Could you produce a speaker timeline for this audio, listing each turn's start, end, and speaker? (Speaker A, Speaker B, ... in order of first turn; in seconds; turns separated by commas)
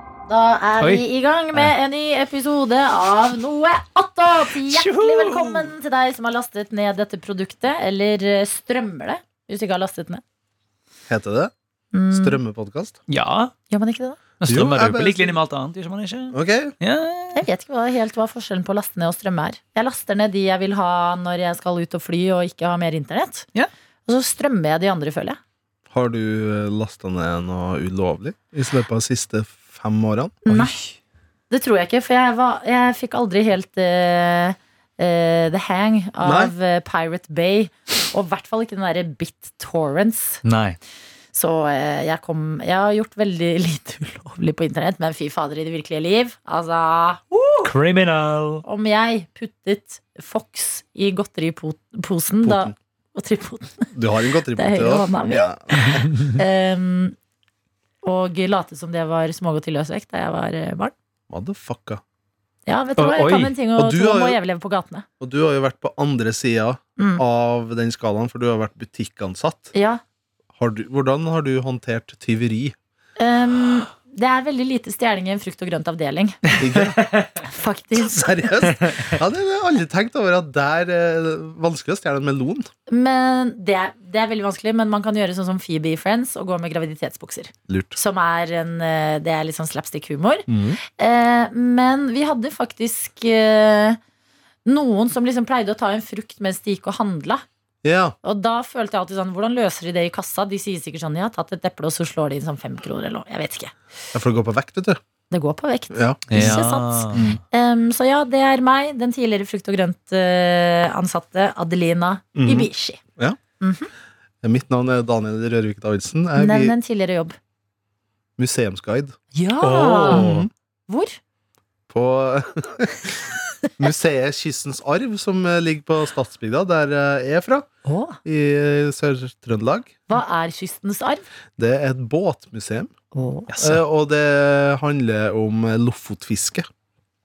Speaker A: 0.3-10.2, Speaker B: 0.8-1.7, Speaker B: 4.7-5.7, Speaker C: 11.1-11.5, Speaker A: 11.9-12.4, Speaker C: 12.1-13.0, Speaker B: 13.1-13.5, Speaker A: 13.7-14.2, Speaker B: 14.4-17.4, Speaker C: 14.5-15.3, Speaker C: 16.3-16.7, Speaker A: 17.4-23.5, Speaker A: 24.1-25.4, Speaker C: 25.9-30.6, Speaker A: 30.4-30.8, Speaker B: 30.5-30.9, Speaker A: 31.5-40.4, Speaker C: 36.2-36.5, Speaker B: 40.4-40.8, Speaker A: 41.3-47.7, Speaker B: 47.6-48.6, Speaker A: 48.6-53.9, Speaker C: 52.4-52.7, Speaker C: 53.9-56.1, Speaker A: 54.5-57.1, Speaker A: 58.0-60.9, Speaker C: 61.3-62.0, Speaker A: 62.7-65.1, Speaker B: 63.0-63.5, Speaker C: 63.8-64.4, Speaker C: 65.2-69.7, Speaker A: 69.7-70.0, Speaker C: 70.6-72.8, Speaker A: 73.2-76.4, Speaker B: 76.5-77.4, Speaker C: 76.6-77.0, Speaker A: 77.5-78.6, Speaker C: 78.0-82.7, Speaker A: 82.9-94.0, Speaker C: 87.7-88.0, Speaker C: 90.5-90.8, Speaker A: 94.7-97.4, Speaker C: 97.8-98.2, Speaker A: 98.2-103.7, Speaker C: 104.1-105.0, Speaker A: 105.3-113.0, Speaker C: 105.9-106.5, Speaker B: 106.3-107.4, Speaker C: 107.1-107.4, Speaker C: 112.3-113.4, Speaker A: 113.6-113.9, Speaker C: 114.4-116.7, Speaker A: 116.4-117.4, Speaker C: 118.4-119.2, Speaker A: 119.3-120.3, Speaker B: 119.6-120.5, Speaker C: 120.0-120.5, Speaker A: 120.9-121.2, Speaker C: 121.9-127.7, Speaker A: 127.9-128.2, Speaker C: 128.2-130.1, Speaker A: 130.1-131.2, Speaker C: 131.6-132.9, Speaker A: 133.2-133.6, Speaker C: 133.5-136.7